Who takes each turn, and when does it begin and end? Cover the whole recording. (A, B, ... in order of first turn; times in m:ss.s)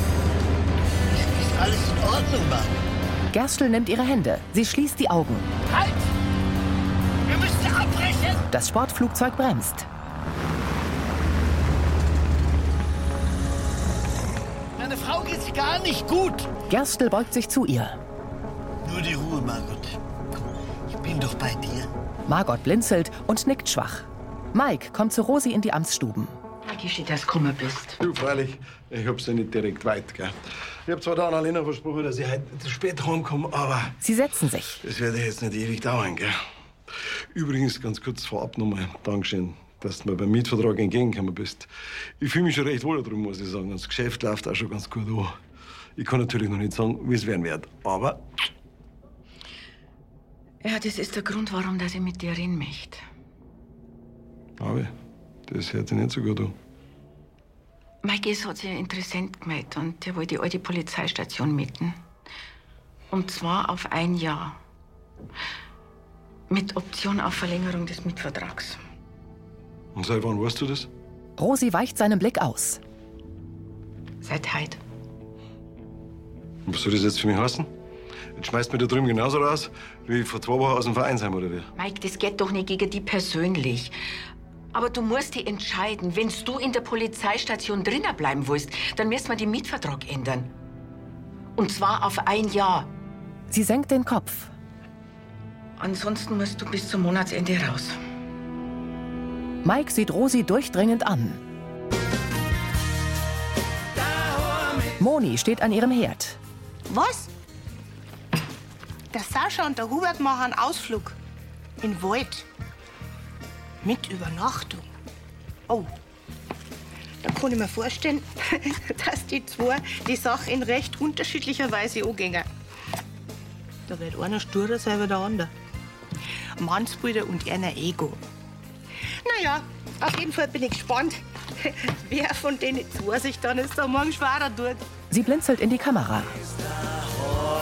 0:01.1-0:02.8 A
0:03.3-0:05.5 B
0:05.7-0:06.0 A
0:07.3-0:08.4 A
0:08.5-0:09.9 B
0:14.8-0:16.5 A
0:16.7-0:18.0 B
0:18.8-0:20.0 A
0:20.9-0:21.9 A
0:22.3-0:26.4 B
0:26.6-0:28.0 C
0:28.0-0:34.0 D
0:34.0-0:34.8 B
0:34.8-0:36.4 D
0:37.3-0:45.4 D
0:46.0-0:48.2 D
0:50.6-0:53.0 C
0:54.6-0:54.9 D
0:55.5-0:56.5 D
0:58.0-1:02.0 C
1:03.1-1:04.6 C
1:06.5-1:08.8 C
1:09.9-1:10.9 D
1:11.4-1:12.8 B
1:14.2-1:14.8 C
1:16.7-1:17.7 D
1:18.4-1:21.7 D
1:21.8-1:23.9 C
1:24.7-1:30.5 C
1:31.6-1:32.9 C
1:33.5-1:34.5 B
1:35.8-1:38.0 C
1:39.6-1:41.4 B
1:45.0-1:46.4 B
1:46.9-1:47.3 E
1:49.1-1:51.2 E
1:51.8-1:52.4 E
1:53.8-1:54.9 E
1:57.2-2:02.5 E
2:03.9-2:05.5 E
2:06.6-2:08.2 E
2:09.2-2:14.8 E
2:15.1-2:16.3 B